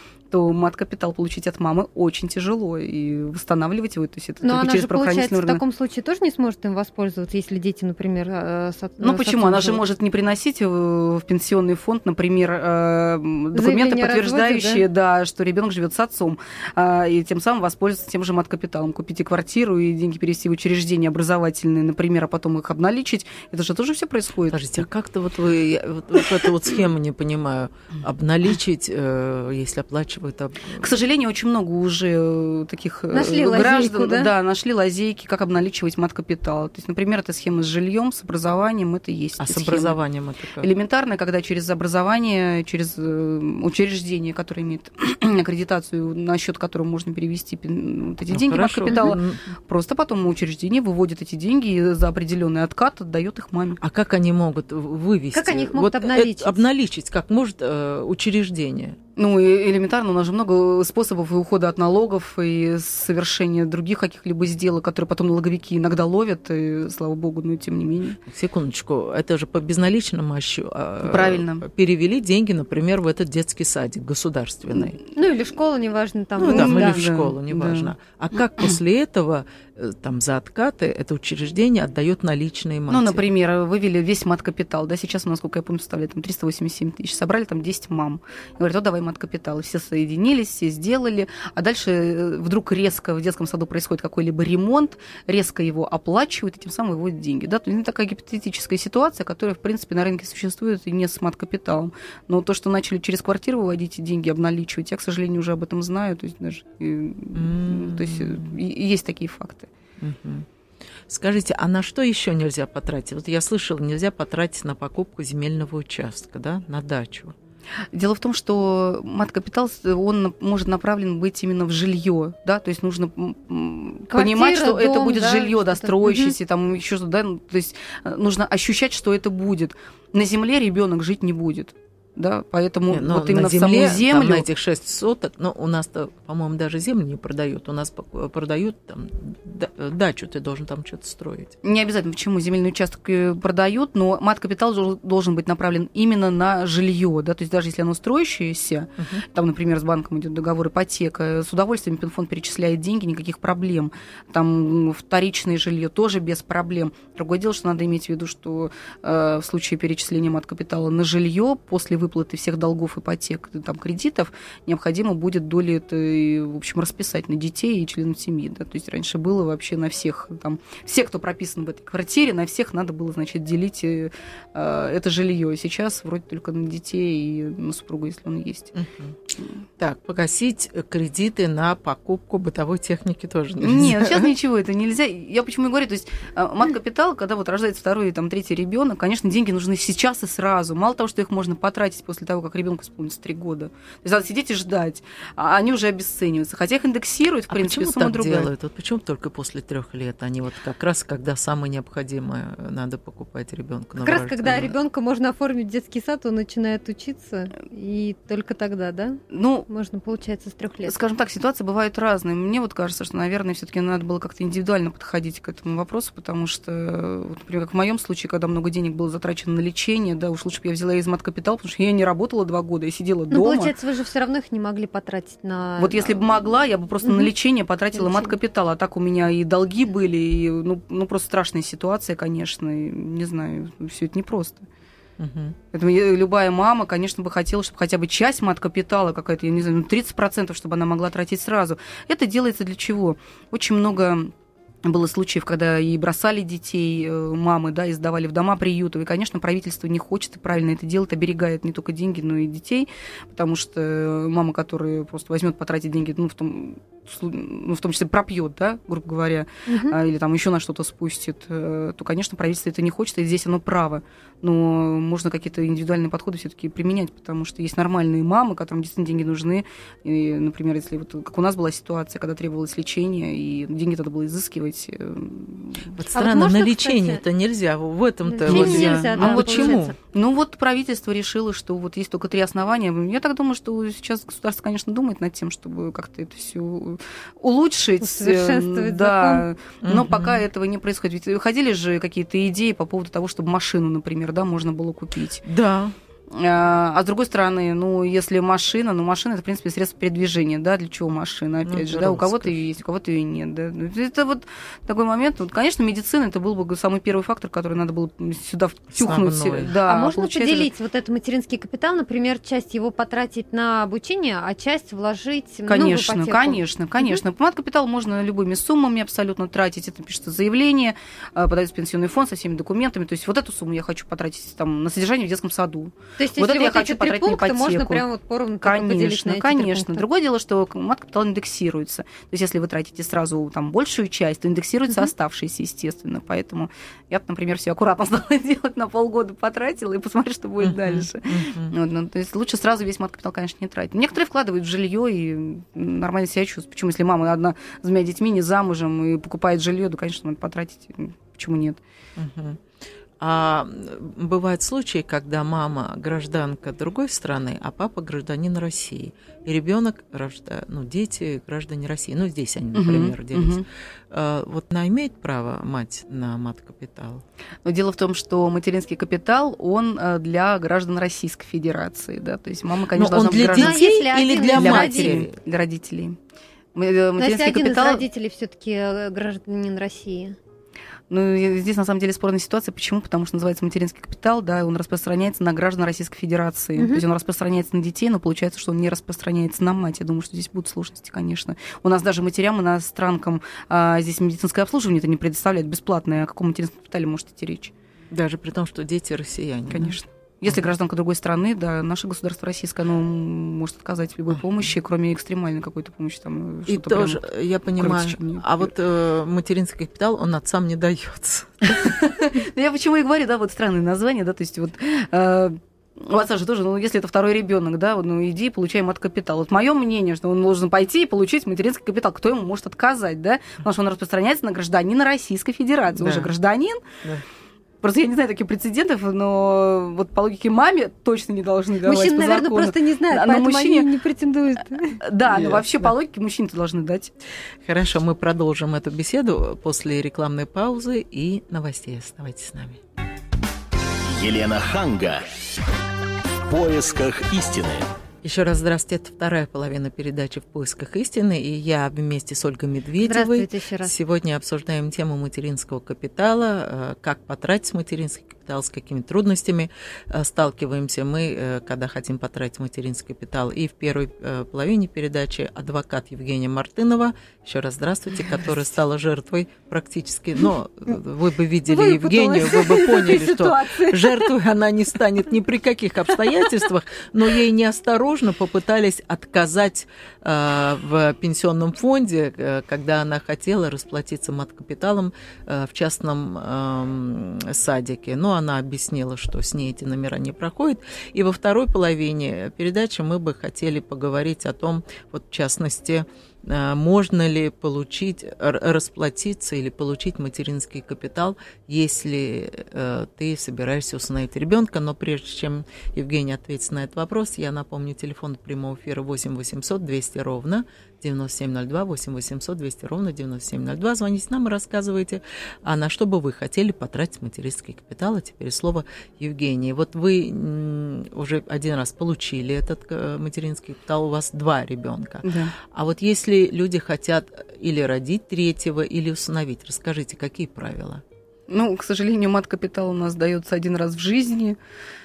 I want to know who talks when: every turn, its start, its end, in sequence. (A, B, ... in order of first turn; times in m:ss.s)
0:00.3-0:05.6 A
0:04.4-0:09.8 B
0:09.0-0:24.8 A
0:13.5-0:14.8 B
0:24.5-0:30.9 C
0:30.8-0:40.0 A
0:33.1-0:34.3 B
0:39.4-0:40.7 C
0:40.6-0:53.8 A
0:48.3-0:49.5 C
0:53.8-0:59.0 C
0:55.3-0:56.6 B
0:59.2-1:08.2 A
1:08.3-1:15.0 C
1:11.0-1:11.7 A
1:15.1-1:17.0 B
1:16.4-1:23.2 C
1:16.4-1:17.9 A
1:22.9-1:49.7 A
1:47.4-1:48.6 C
1:50.0-1:50.5 C
1:51.1-1:57.4 C
1:57.9-2:14.5 A
2:04.1-2:06.4 B
2:12.9-2:21.6 C
2:21.6-2:58.7 A
2:29.0-2:29.2 C
2:58.8-2:59.2 C
2:59.8-3:04.3 C
3:03.6-3:18.5 A
3:17.5-3:24.8 C
3:24.0-3:31.0 B
3:29.3-3:29.7 A
3:30.8-3:43.7 A
3:43.3-3:46.5 B
3:45.8-3:54.6 A
3:47.0-3:47.3 B
3:47.9-3:48.3 B
3:55.2-3:55.6 C
3:55.7-4:04.3 A
4:04.8-4:36.0 A
4:19.7-4:20.0 B
4:36.0-4:40.0 C
4:36.2-4:37.2 B
4:38.3-4:40.0 B
4:38.5-4:55.4 A
4:48.0-4:49.4 B
4:49.8-4:50.4 C
4:55.5-4:56.0 C
4:56.3-5:10.7 A
5:01.7-5:02.6 C
5:08.9-5:09.8 C
5:09.9-5:17.2 B
5:15.7-5:28.0 A
5:26.2-5:30.0 B
5:28.6-5:51.8 A
5:40.6-5:41.7 C
5:52.2-5:52.6 C
5:53.2-6:07.2 C
6:02.7-6:03.6 A
6:07.6-6:16.2 A
6:13.0-6:15.3 C
6:13.6-6:15.2 B
6:16.8-6:18.0 A
6:17.2-6:20.4 B
6:21.1-6:37.7 A
6:26.8-6:27.0 B
6:38.1-6:40.0 C
6:39.7-6:48.7 A
6:46.7-6:51.9 C
6:51.7-7:06.8 A
7:06.0-7:06.3 C
7:07.8-7:13.9 A
7:11.8-7:15.0 B
7:15.0-7:17.1 A
7:15.3-7:15.9 C
7:17.6-7:22.8 C
7:24.1-7:25.3 D
7:26.5-7:27.9 D
7:28.2-8:51.0 C
7:33.0-7:34.0 B
7:51.7-7:54.3 B
8:45.2-8:45.5 A
8:51.5-8:54.6 A